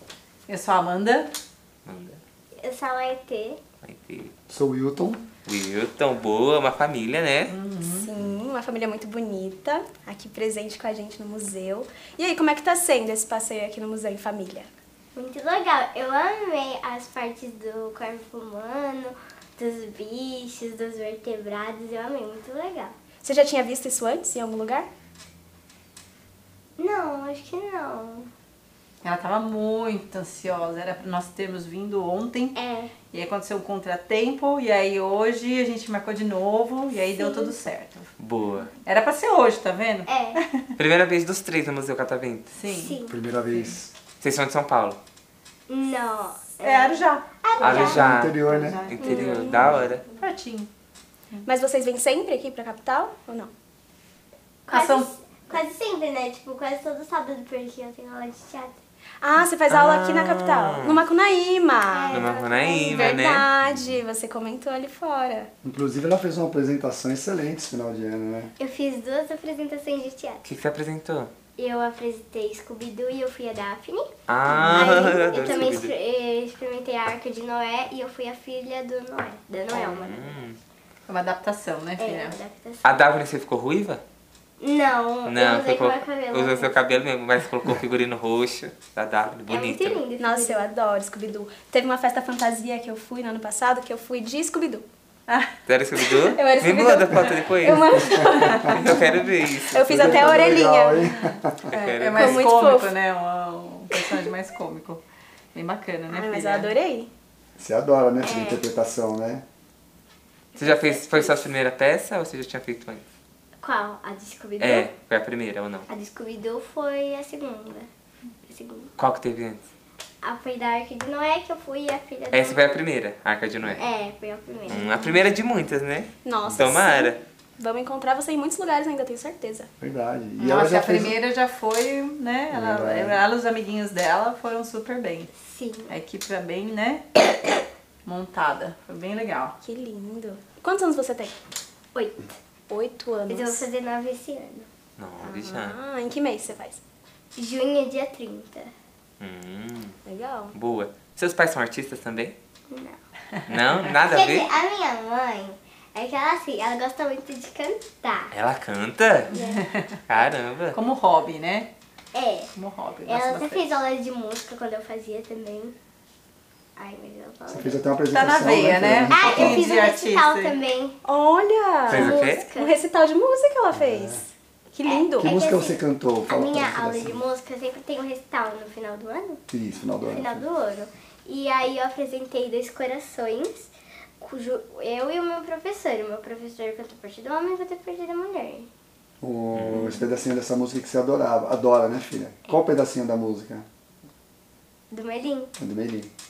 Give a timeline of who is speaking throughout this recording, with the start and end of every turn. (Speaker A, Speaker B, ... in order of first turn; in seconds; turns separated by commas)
Speaker A: 0.5-1.3, Speaker B: 1.9-2.2, Speaker C: 2.6-3.6, Speaker B: 3.8-4.3, Speaker D: 4.5-5.2, Speaker B: 5.5-7.5, Speaker A: 7.5-8.1, Speaker E: 7.9-14.7, Speaker C: 15.2-22.9, Speaker E: 23.2-24.9, Speaker C: 26.8-28.3, Speaker A: 29.0-38.1, Speaker C: 32.5-33.0, Speaker C: 37.0-37.6, Speaker B: 38.2-38.7, Speaker A: 38.9-40.6, Speaker C: 40.1-40.4, Speaker B: 40.8-42.6, Speaker A: 42.5-43.8, Speaker C: 42.7-43.2, Speaker D: 43.1-43.9, Speaker B: 44.2-45.0, Speaker C: 45.7-48.1, Speaker A: 46.6-49.6, Speaker B: 47.6-50.1, Speaker D: 47.7-48.8, Speaker C: 49.0-49.3, Speaker E: 49.0-49.7, Speaker A: 50.2-50.7, Speaker E: 51.4-53.5, Speaker C: 54.7-58.8, Speaker A: 54.7-55.1, Speaker E: 59.2-65.5, Speaker B: 59.7-61.0, Speaker C: 61.9-63.2, Speaker B: 62.1-63.5, Speaker D: 65.6-68.5, Speaker C: 68.6-70.5, Speaker B: 70.5-71.3, Speaker C: 71.6-80.4, Speaker B: 74.3-75.9, Speaker B: 79.7-80.6, Speaker A: 81.1-82.4, Speaker C: 82.0-83.0, Speaker B: 82.8-84.0, Speaker C: 84.6-86.8, Speaker B: 85.3-90.0, Speaker C: 89.5-90.7, Speaker E: 90.2-94.8, Speaker B: 95.7-100.3, Speaker E: 96.3-99.0, Speaker D: 98.0-98.7, Speaker E: 99.6-101.1, Speaker D: 99.9-101.7, Speaker B: 101.7-102.4, Speaker A: 101.7-105.0, Speaker E: 102.1-103.0, Speaker A: 105.5-106.7, Speaker E: 106.1-107.1, Speaker D: 107.6-109.5, Speaker C: 108.2-108.7, Speaker C: 110.5-111.5, Speaker B: 110.6-113.0, Speaker C: 113.6-114.9, Speaker B: 114.6-115.9, Speaker C: 115.9-117.9, Speaker C: 118.5-118.9, Speaker B: 119.0-119.7, Speaker C: 120.2-122.7, Speaker B: 122.3-123.8, Speaker C: 123.7-124.9, Speaker B: 124.7-127.2, Speaker E: 124.7-125.3, Speaker E: 126.2-129.7, Speaker D: 129.8-131.2, Speaker A: 130.4-135.3, Speaker D: 132.5-133.2, Speaker C: 135.4-135.9, Speaker A: 135.9-137.5, Speaker A: 138.1-139.5, Speaker E: 139.6-141.3, Speaker C: 141.9-142.3, Speaker E: 142.7-143.6, Speaker C: 143.3-144.7, Speaker B: 145.0-145.8, Speaker E: 145.2-146.8, Speaker C: 147.4-148.7, Speaker B: 149.2-150.0, Speaker E: 150.1-150.6, Speaker B: 150.5-152.3, Speaker C: 152.7-153.0, Speaker B: 153.5-154.5, Speaker C: 154.0-158.3, Speaker B: 158.3-159.3, Speaker A: 159.3-160.0, Speaker C: 159.3-159.6, Speaker B: 160.1-160.8, Speaker A: 160.7-161.7, Speaker C: 162.1-162.5, Speaker A: 162.6-163.8, Speaker C: 163.1-165.7, Speaker C: 166.8-167.8, Speaker D: 167.5-169.6, Speaker A: 168.1-170.6, Speaker C: 169.1-171.0, Speaker E: 171.1-175.4, Speaker B: 171.9-172.5, Speaker C: 171.9-172.8, Speaker D: 173.7-174.2, Speaker C: 174.8-179.4, Speaker D: 175.2-177.2, Speaker D: 179.5-180.4, Speaker C: 180.1-188.7, Speaker D: 189.2-193.7, Speaker B: 189.6-190.0, Speaker C: 194.9-195.5, Speaker D: 195.6-196.1